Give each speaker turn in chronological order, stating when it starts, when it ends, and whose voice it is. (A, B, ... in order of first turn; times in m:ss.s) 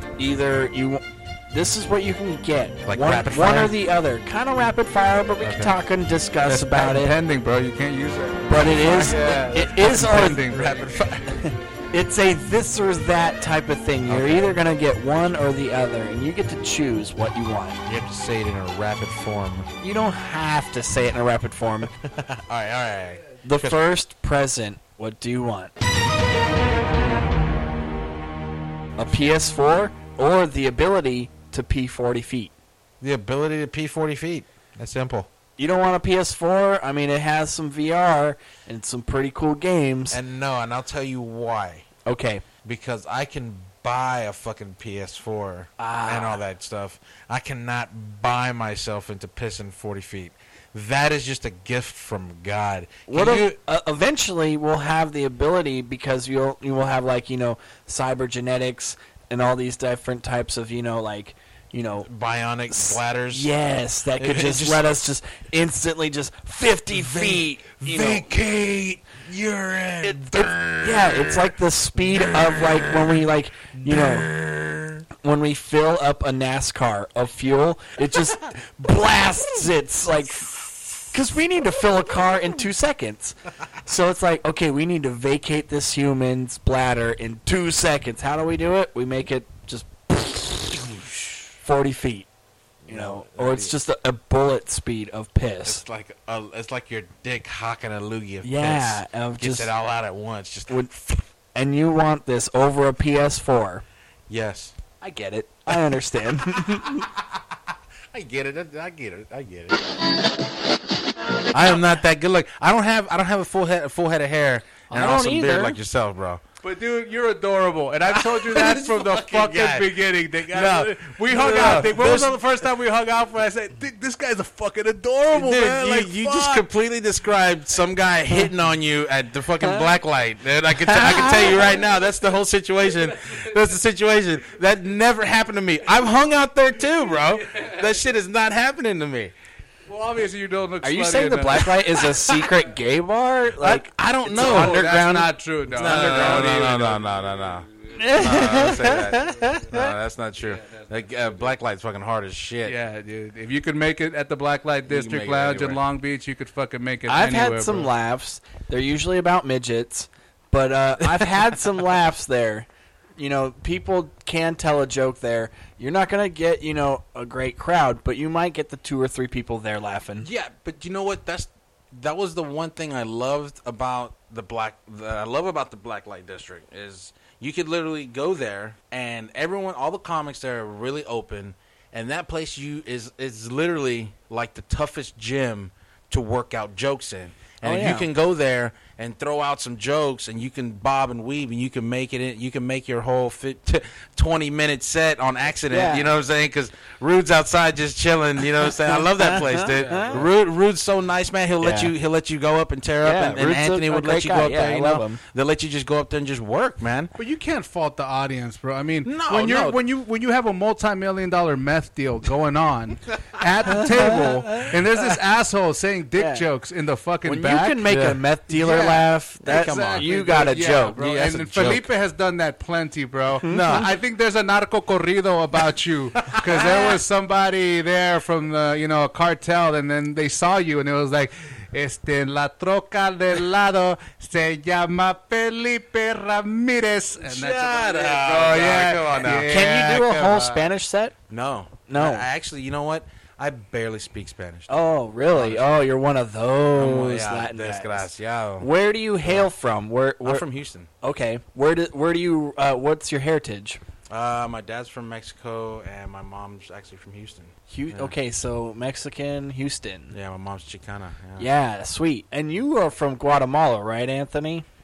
0:00.2-0:07.1 A
0:02.8-0:03.8 B
0:05.4-0:05.7 B
0:06.4-0:11.1 C
0:08.5-0:10.4 A
0:08.8-0:11.4 B
0:11.4-0:17.8 A
0:14.0-0:14.6 B
0:17.8-0:19.7 B
0:19.8-0:21.9 A
0:22.0-0:23.8 B
0:23.4-0:25.7 A
0:29.0-0:32.5 A
0:33.0-0:35.3 B
0:35.6-0:40.2 A
0:40.1-0:41.8 B
0:42.0-0:42.4 A
0:42.6-0:53.6 B
0:45.8-0:46.4 A
0:53.1-1:02.1 A
1:02.0-1:03.5 B
1:02.7-1:08.3 A
1:04.1-1:05.1 B
1:06.9-1:13.2 B
1:10.0-1:14.3 A
1:13.8-1:15.0 B
1:15.2-1:31.0 A
1:31.6-1:32.3 A
1:32.8-1:33.8 B
1:32.9-1:35.8 A
1:35.6-1:41.2 B
1:38.4-1:39.7 A
1:41.5-1:43.8 A
1:44.3-1:44.7 B
1:45.0-1:47.1 A
1:45.7-1:45.9 B
1:46.5-1:49.8 B
1:51.5-1:56.4 B
1:54.9-1:55.8 A
1:56.6-2:06.7 C
1:58.1-2:02.4 B
2:05.3-2:19.3 B
2:09.6-2:09.9 A
2:10.8-2:11.7 A
2:12.9-2:13.6 C
2:17.2-2:17.9 C
2:19.9-2:22.6 C
2:20.8-2:25.3 A
2:23.6-2:25.2 B
2:24.3-2:29.6 C
2:25.7-2:32.8 B
2:27.9-2:29.9 A
2:30.4-2:31.5 C
2:32.6-2:37.9 C
2:34.9-2:35.8 B
2:37.1-2:50.3 A
2:41.0-2:41.5 B
2:50.2-3:27.1 B
3:07.6-3:08.1 A
3:15.7-3:16.1 A
3:18.8-3:20.2 A
3:19.8-3:20.3 C
3:21.6-3:21.9 A
3:23.0-3:25.2 A
3:27.2-3:37.8 C
3:29.0-3:29.8 B
3:33.4-3:34.8 B
3:33.7-3:34.3 A
3:36.2-3:36.4 A
3:37.2-3:41.0 A
3:37.9-3:38.2 B
3:38.5-4:00.7 C
3:39.4-3:41.9 B
3:43.4-3:43.9 B
3:43.4-3:43.8 A
3:46.2-3:47.0 B
3:57.2-3:59.7 B
3:59.5-4:01.1 A
4:01.3-4:05.8 B
4:01.9-4:02.3 A
4:04.7-4:10.4 A
4:06.7-4:08.7 B
4:09.2-4:09.5 B
4:10.2-4:10.9 B
4:11.0-4:13.8 A
4:14.1-4:18.1 B
4:17.7-4:20.1 A
4:20.1-4:21.5 B
4:21.4-4:24.6 A